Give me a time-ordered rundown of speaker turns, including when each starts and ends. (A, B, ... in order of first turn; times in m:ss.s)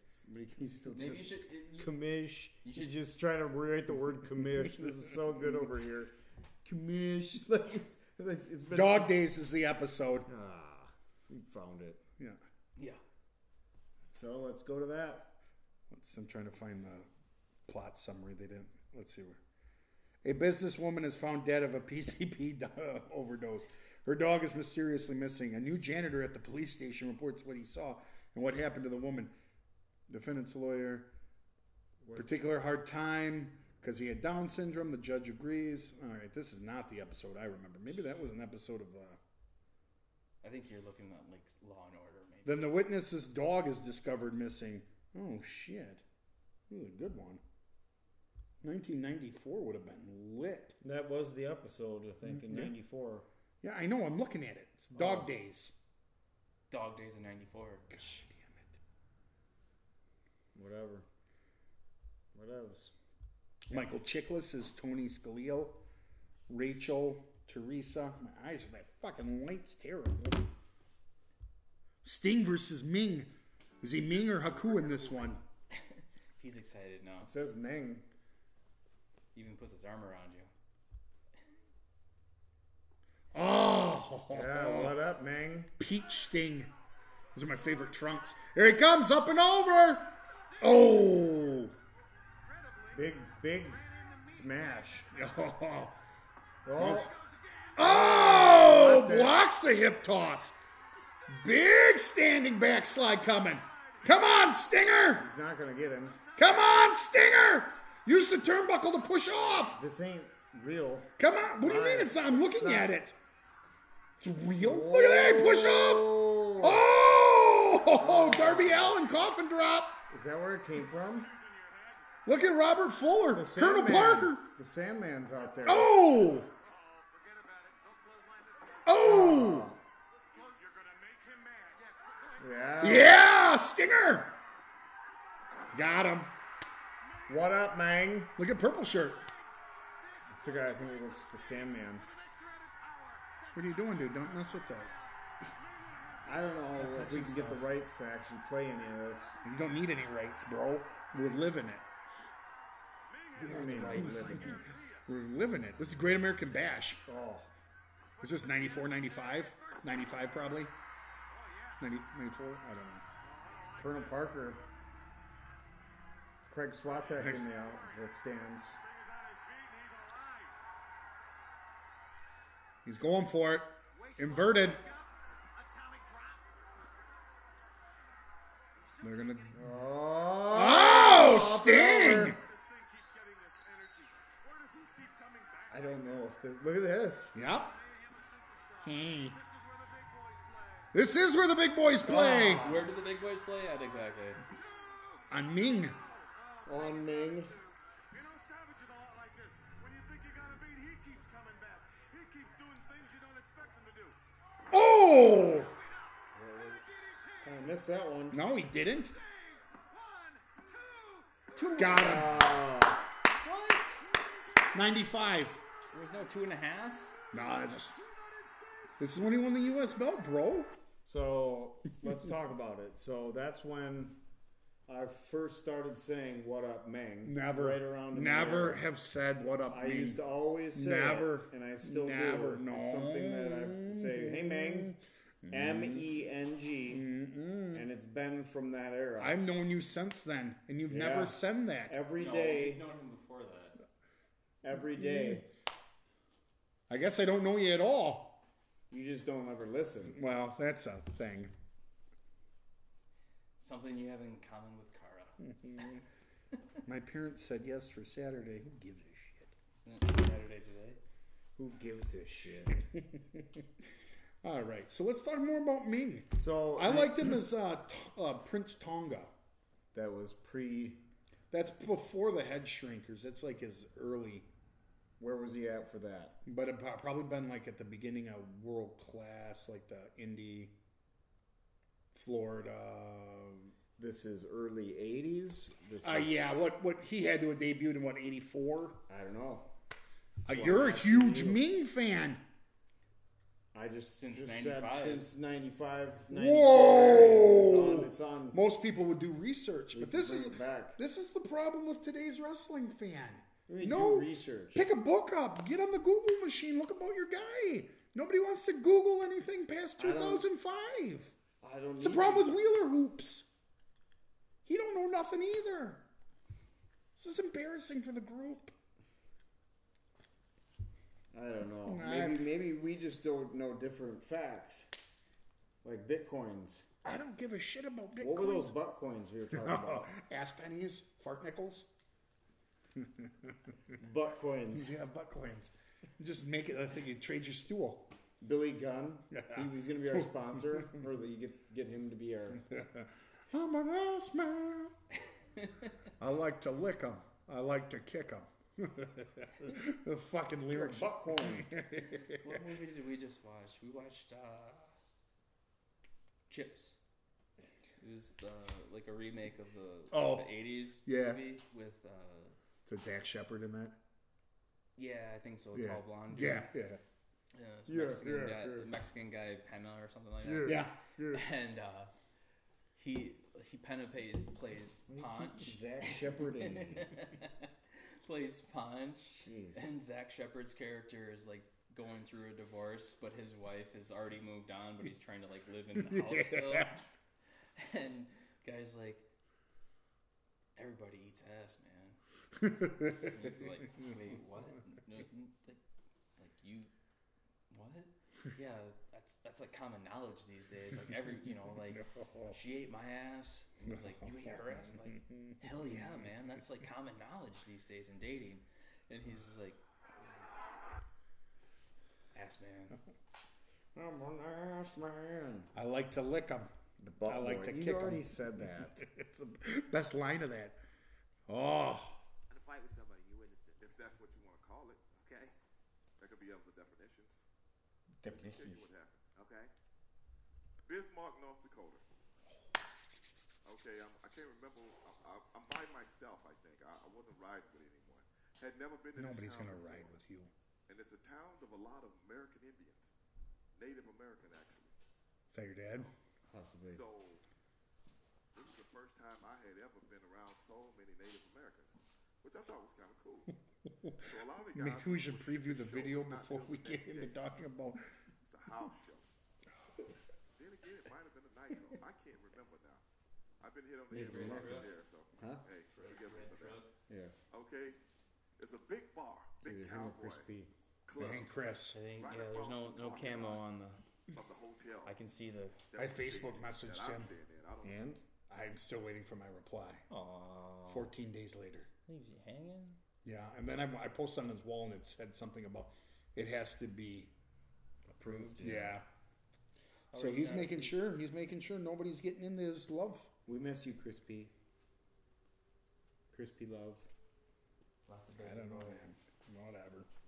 0:00.2-0:06.1 A
0:00.9-0:02.0 B
0:02.6-0:02.9 B
0:06.6-0:09.2 A
0:08.7-0:10.3 C
0:10.3-0:12.0 A
0:14.1-0:15.4 A
0:15.9-0:17.1 C
0:17.7-0:19.4 C
0:20.2-0:29.3 C
0:30.1-0:31.1 C
0:32.2-0:39.2 C
0:40.4-0:42.7 B
0:42.4-0:46.0 C
0:46.7-0:47.4 C
0:48.6-0:50.8 C
0:50.8-0:53.3 A
0:52.2-0:52.7 C
0:53.6-0:55.8 C
0:55.0-0:55.3 A
0:56.7-0:58.0 B
0:57.9-0:58.6 C
1:00.5-1:01.0 A
1:02.3-1:02.9 A
1:03.7-1:05.8 C
1:06.5-1:10.5 C
1:12.0-1:15.4 C
1:14.1-1:15.4 D
1:15.7-1:17.3 B
1:17.2-1:18.0 A
1:19.3-1:20.5 B
1:23.3-1:25.0 C
1:24.3-1:25.7 A
1:25.8-1:26.7 C
1:27.3-1:31.7 C
1:32.5-1:33.0 E
1:32.9-1:35.1 A
1:33.7-1:34.8 E
1:35.1-1:36.0 C
1:36.7-1:37.1 A
1:36.8-1:37.1 C
1:37.1-1:37.8 D
1:37.8-1:40.6 C
1:37.8-1:39.4 A
1:41.0-1:41.3 D
1:41.3-1:45.3 C
1:43.6-1:44.2 D
1:45.2-1:46.2 A
1:46.2-1:47.0 D
1:46.4-1:49.8 C
1:49.7-1:52.9 A
1:51.2-1:53.2 C
1:54.2-2:00.0 C
1:54.6-1:56.9 A
1:57.9-1:59.0 A
2:00.1-2:01.3 A
2:01.4-2:02.0 D
2:02.3-2:04.5 C
2:03.3-2:06.0 A
2:05.6-2:06.5 C
2:06.7-2:07.0 D
2:06.7-2:08.9 E
2:08.8-2:09.7 C
2:09.0-2:09.8 A
2:10.3-2:12.4 E
2:10.4-2:11.8 D
2:12.4-2:13.2 A
2:12.8-2:14.4 C
2:15.7-2:16.3 C
2:17.3-2:18.3 A
2:18.4-2:19.3 C
2:20.3-2:22.1 A
2:20.5-2:21.1 D
2:22.1-2:23.2 D
2:22.3-2:23.5 E
2:23.6-2:24.9 C
2:25.6-2:26.7 D
2:26.2-2:29.4 A
2:26.8-2:27.6 C
2:26.8-2:27.6 B
2:29.4-2:31.8 C
2:33.1-2:35.0 D
2:33.4-2:34.7 A
2:33.4-2:37.0 C
2:33.5-2:34.4 B
2:37.0-2:37.5 A
2:38.2-2:40.7 C
2:38.3-2:40.3 D
2:41.8-2:43.0 C
2:43.4-2:44.0 E
2:43.8-2:44.6 A
2:46.5-2:48.8 A
2:47.1-2:47.5 C
2:48.9-2:50.5 E
2:52.8-2:54.8 C
2:53.9-2:56.4 E
2:58.8-2:59.6 E
2:59.0-2:59.7 C
2:59.5-3:02.4 A
3:00.5-3:02.4 C
3:02.4-3:05.9 D
3:04.7-3:05.1 E
3:05.7-3:07.4 A
3:07.3-3:07.8 C
3:07.9-3:10.7 E
3:08.8-3:09.4 C
3:10.0-3:10.9 D
3:10.9-3:12.8 C
3:12.0-3:12.9 A
3:12.0-3:14.4 B
3:14.5-3:15.3 D
3:15.3-3:16.0 C
3:15.9-3:17.6 D
3:16.7-3:17.6 A
3:18.2-3:22.3 E
3:18.3-3:24.2 D
3:24.7-3:25.8 C
3:26.9-3:27.3 D
3:27.4-3:28.4 A
3:28.3-3:29.2 C
3:29.3-3:31.3 D
3:29.8-3:31.3 E
3:31.5-3:32.5 B
3:31.8-3:32.6 C
3:31.9-3:33.1 A
3:33.4-3:34.1 B
3:34.7-3:35.6 C
3:35.9-3:37.1 B
3:37.3-3:38.0 C
3:37.8-3:40.1 D
3:39.0-3:40.8 C
3:41.0-3:44.2 A
3:44.9-3:48.8 A
3:47.2-3:56.1 C
3:49.7-3:55.0 A
3:55.5-3:57.0 A
3:56.9-3:57.9 C
3:57.7-3:59.4 A
3:59.2-4:02.0 C
4:00.9-4:02.9 A
4:02.2-4:03.8 B
4:04.6-4:05.5 A
4:06.9-4:08.4 C
4:08.9-4:10.2 A
4:10.0-4:11.5 C
4:13.6-4:15.4 B
4:15.4-4:16.0 C
4:16.9-4:19.5 C
4:19.8-4:21.0 B
4:21.6-4:22.8 A
4:22.8-4:23.5 C
4:24.4-4:29.3 C
4:26.4-4:27.4 A
4:29.9-4:31.0 A
4:31.5-4:34.5 C
4:35.2-4:36.4 A
4:36.4-4:40.7 C
4:42.1-4:43.7 C
4:44.0-4:46.6 A
4:46.0-4:49.0 C
4:49.1-4:49.7 A
4:50.4-4:52.4 C
4:50.5-4:51.6 A
4:53.7-4:58.6 A
4:54.1-4:55.3 B
4:56.3-5:11.3 C
4:59.9-5:01.0 A
5:03.7-5:04.8 A
5:10.0-5:10.5 A
5:11.6-5:12.5 A
5:12.0-5:13.5 C
5:14.7-5:16.0 C
5:17.2-5:18.7 C
5:21.3-5:24.9 A
5:21.9-5:22.5 C
5:25.8-5:26.9 A
5:27.0-5:28.8 C
5:28.2-5:30.1 A
5:29.5-5:31.9 C
5:33.0-5:33.6 C
5:34.0-5:34.9 A
5:34.7-5:38.1 C
5:38.4-5:42.6 A
5:39.3-5:40.9 C
5:42.7-5:44.9 C
5:46.2-5:52.5 C
5:50.7-5:51.7 A
5:52.1-5:54.9 B
5:56.5-5:57.0 B
5:58.0-6:02.6 B
6:00.1-6:01.4 C
6:02.9-6:04.0 C
6:05.0-6:06.7 B
6:05.7-6:07.0 C
6:07.5-6:12.1 B
6:07.9-6:08.9 A
6:10.4-6:10.8 A
6:10.6-6:11.4 C
6:13.0-6:27.0 B
6:15.1-6:17.2 A
6:19.3-6:19.9 A
6:26.0-6:26.9 C
6:27.8-6:29.3 B
6:30.8-6:32.2 B
6:32.6-6:33.3 C
6:33.1-6:35.8 B
6:36.4-6:36.9 B
6:37.7-6:49.8 B
6:41.9-6:42.6 C
6:43.9-6:46.1 C
6:52.3-6:53.0 B
6:54.0-6:55.7 A
6:55.7-6:56.7 C
6:57.0-6:59.0 A
6:57.2-7:00.8 C
7:01.5-7:02.2 C
7:02.5-7:03.8 E
7:03.8-7:05.1 D
7:05.2-7:05.6 E
7:06.2-7:07.5 D
7:08.2-7:08.9 A
7:08.2-7:09.2 D
7:09.4-7:09.7 E
7:10.9-7:12.0 D
7:13.6-7:20.2 D
7:19.2-7:20.5 C
7:20.9-7:23.1 D
7:23.8-7:24.9 D
7:25.5-7:26.1 C
7:26.5-7:27.0 A
7:26.8-7:27.4 D
7:28.6-7:33.6 D
7:33.9-7:38.0 C
7:34.2-7:37.4 D
7:38.4-7:39.2 D
7:40.6-7:43.0 D
7:43.6-7:46.8 D
7:44.1-7:45.0 B
7:44.1-7:45.6 A
7:45.9-7:46.9 B
7:47.1-7:47.3 A
7:47.5-7:48.0 D
7:48.6-7:50.5 D
7:49.6-7:50.7 A
7:51.1-7:51.5 D
7:51.2-7:52.0 C
7:51.9-7:54.0 B
7:52.2-7:53.6 D
7:54.3-7:55.1 D
7:55.0-7:55.8 B
7:55.9-7:58.0 D
7:56.0-7:57.3 C
7:57.8-7:58.2 A
7:58.5-8:00.0 C
8:00.1-8:01.1 B
8:00.9-8:01.9 C
8:02.1-8:03.0 B
8:03.2-8:07.3 C
8:08.1-8:09.0 A
8:08.2-8:08.7 B
8:08.6-8:09.0 C
8:10.1-8:11.0 B
8:10.1-8:13.3 C
8:13.5-8:14.5 A
8:16.3-8:17.1 A
8:18.1-8:19.0 B
8:18.4-8:20.1 C